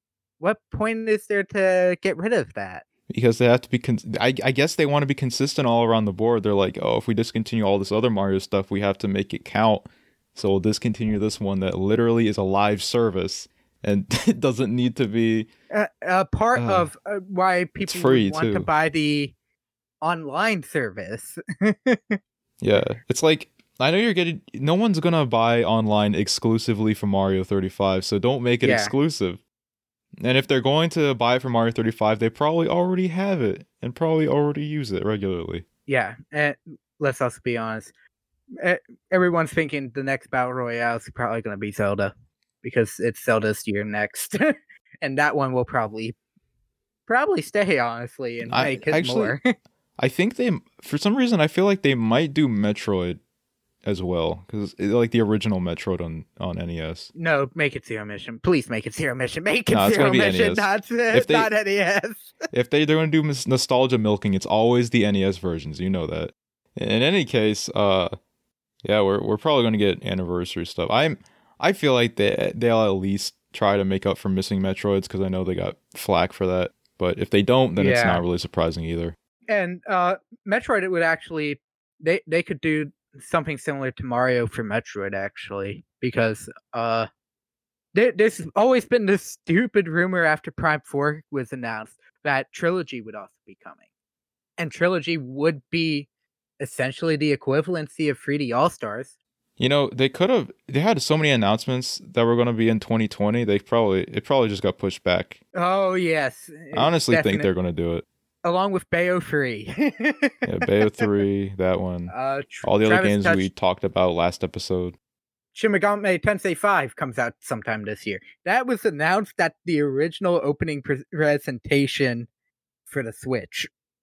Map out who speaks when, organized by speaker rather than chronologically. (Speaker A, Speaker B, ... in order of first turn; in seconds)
Speaker A: 0.4-2.9, 15.7-19.3, 20.0-22.2, 28.6-28.9, 35.9-37.9, 38.6-46.1, 47.1-49.4, 57.1-62.3, 77.8-78.2, 79.5-87.1, 87.9-93.8, 94.6-96.1, 96.6-99.1, 105.5-107.5, 108.4-111.1, 112.1-113.5, 115.5-122.3, 122.9-123.7
Speaker B: 3.1-15.5, 16.5-16.9, 17.8-18.7, 22.6-29.4, 30.2-35.6, 48.4-49.4, 50.0-53.2, 53.8-57.1, 59.7-61.5, 62.5-68.2, 68.8-79.1, 99.6-105.4, 106.7-108.0, 110.4-115.0